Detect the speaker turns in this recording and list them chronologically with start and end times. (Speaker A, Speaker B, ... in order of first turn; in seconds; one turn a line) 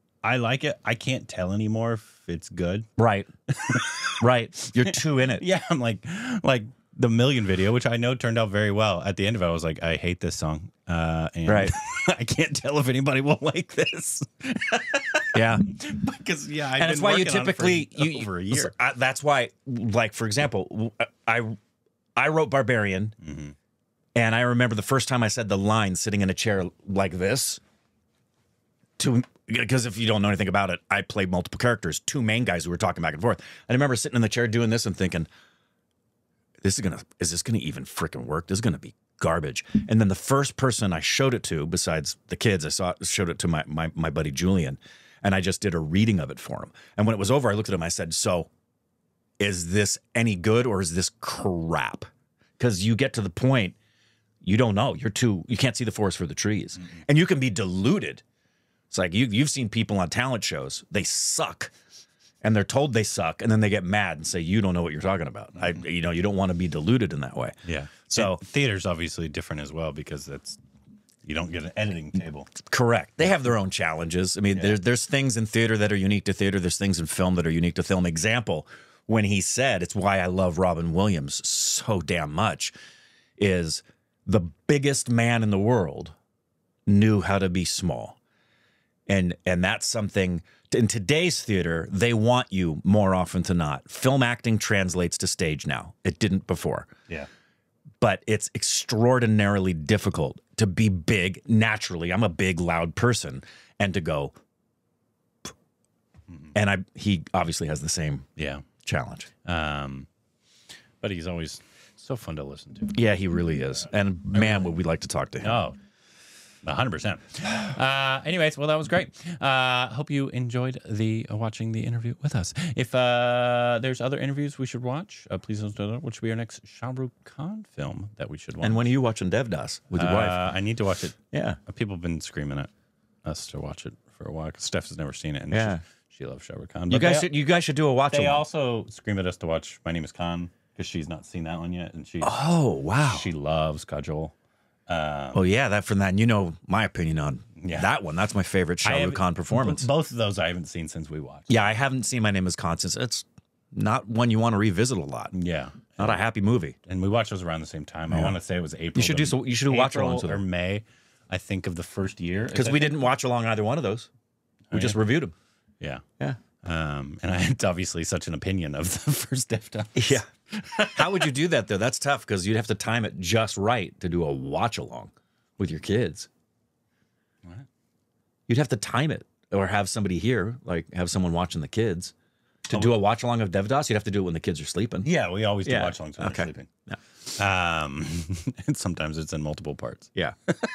Speaker A: 0.2-2.9
Speaker B: 3.0-3.3
Speaker A: 3.5-4.2
Speaker B: 4.2-5.4
Speaker A: 4.8-18.7
Speaker B: 11.5-11.8
Speaker B: 15.3-15.7
Speaker B: 16.8-21.6
Speaker B: 22.2-23.2
Speaker A: 23.2-23.5
Speaker B: 24.1-27.6
Speaker B: 29.0-35.3
Speaker B: 36.6-48.5
Speaker B: 49.4-53.8
Speaker B: 54.4-58.2
Speaker B: 58.9-61.7
Speaker B: 62.4-68.4
Speaker A: 67.7-70.6
Speaker A: 71.2-72.5
Speaker B: 72.7-82.7
Speaker A: 74.5-74.8
Speaker B: 83.4-86.2
Speaker B: 86.9-88.2
Speaker B: 89.1-96.9
Speaker B: 98.0-104.3
Speaker B: 106.5-108.3
Speaker A: 108.4-108.7
Speaker B: 108.8-109.3
Speaker A: 109.4-110.1
Speaker A: 111.0-113.0
Speaker B: 112.9-115.6
Speaker A: 114.4-114.7
Speaker A: 115.4-115.8
Speaker A: 116.6-128.9
Speaker B: 128.6-130.4
Speaker A: 129.9-132.7
Speaker B: 131.3-131.6
Speaker A: 133.2-137.3
Speaker B: 135.5-135.8
Speaker B: 136.9-138.4
Speaker A: 138.1-142.4
Speaker B: 142.2-143.3
Speaker A: 143.0-144.3
Speaker A: 144.9-145.4
Speaker B: 145.3-149.9
Speaker A: 147.6-147.9
Speaker A: 148.8-151.6
Speaker B: 151.5-155.4
Speaker A: 155.3-156.2
Speaker B: 156.0-156.8
Speaker A: 156.8-163.0
Speaker B: 158.1-158.4
Speaker B: 158.9-160.4
Speaker B: 162.5-164.1
Speaker A: 164.7-165.0
Speaker B: 164.7-165.3
Speaker A: 166.6-171.3
Speaker B: 169.9-176.3
Speaker B: 178.5-182.1
Speaker B: 182.7-185.1
Speaker A: 182.7-183.0
Speaker A: 185.1-186.7
Speaker B: 185.7-187.0
Speaker A: 187.4-190.1